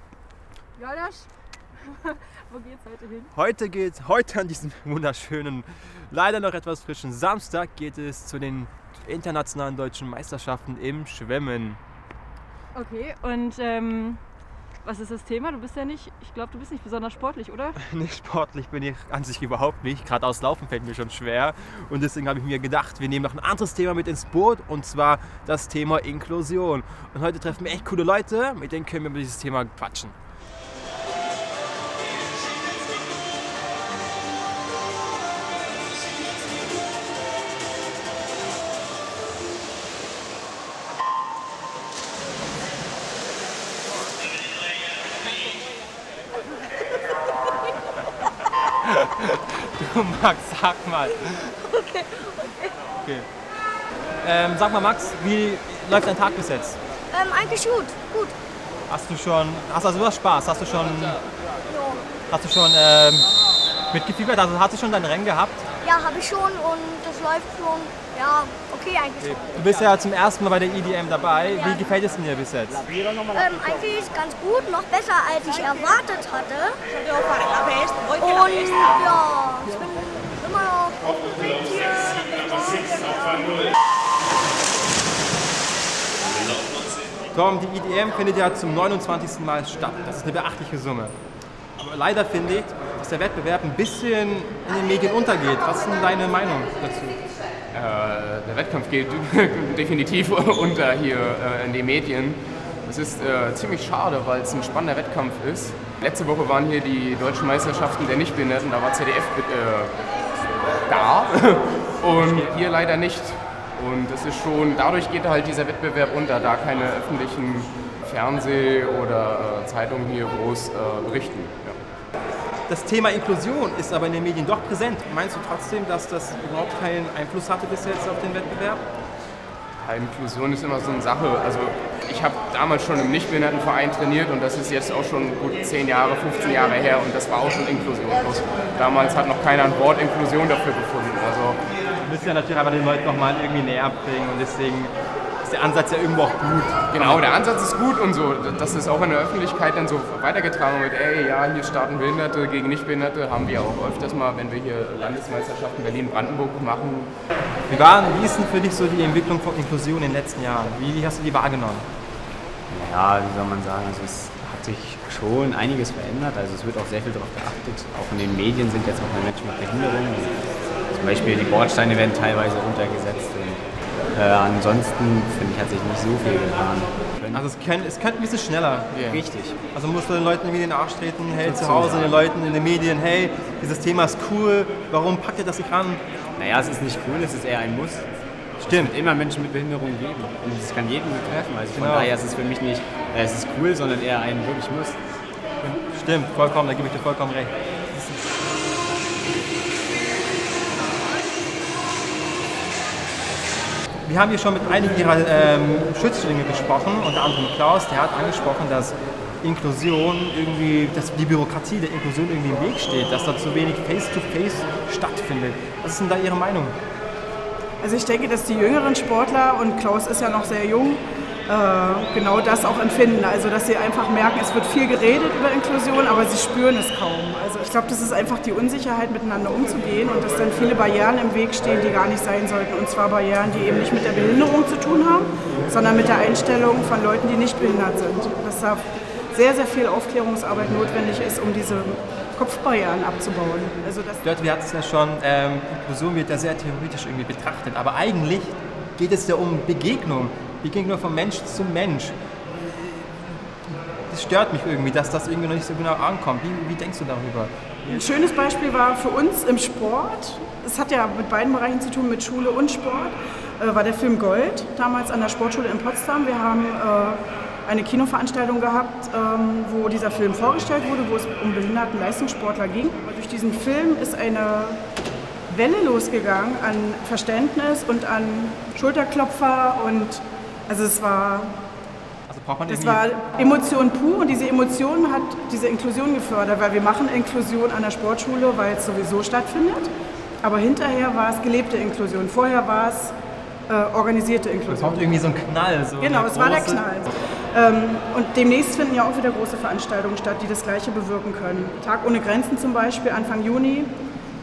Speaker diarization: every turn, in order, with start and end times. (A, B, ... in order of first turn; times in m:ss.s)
0:00.8-0:01.3 A
0:01.9-0:03.3 A
0:03.3-0:11.8 B
0:12.8-0:14.2 A
0:14.8-0:17.8 A
0:17.8-0:30.2 B
0:48.8-0:51.5 B
0:51.6-0:52.6 C
0:53.0-0:53.3 B
0:54.2-0:56.8 B
0:57.1-0:58.3 C
0:58.9-1:01.2 B
1:01.7-1:02.0 C
1:02.3-1:03.3 B
1:03.9-1:05.7 B
1:05.8-1:09.4 C
1:09.2-1:12.8 B
1:11.5-1:11.8 C
1:13.3-1:16.8 C
1:18.1-1:23.7 C
1:27.3-1:31.1 B
1:31.8-1:37.2 B
1:37.7-1:50.0 D
1:50.9-2:01.8 D
1:52.2-1:52.6 B
2:02.7-2:08.8 B
2:09.8-2:21.6 D
2:22.0-2:27.2 B
2:26.9-2:37.1 D
2:37.7-2:41.9 B
2:42.7-2:57.5 E
2:57.3-2:59.0 B
2:58.9-2:59.2 D
2:59.1-2:59.6 E
2:59.7-3:06.0 B
3:01.4-3:02.2 E
3:06.4-3:08.1 E
3:08.6-3:15.0 E
3:08.6-3:09.0 B
3:11.3-3:12.2 B
3:15.6-3:18.3 B
3:24.0-3:36.8 B
3:37.8-4:04.2 F
4:04.2-4:18.0 B
4:17.9-4:34.8 F
4:35.5-4:41.6 F
4:42.3-4:43.1 B
4:42.7-4:49.9 F
4:50.4-4:53.1 F
4:53.7-4:55.1 F
4:54.7-4:56.9 B
4:56.0-5:03.9 F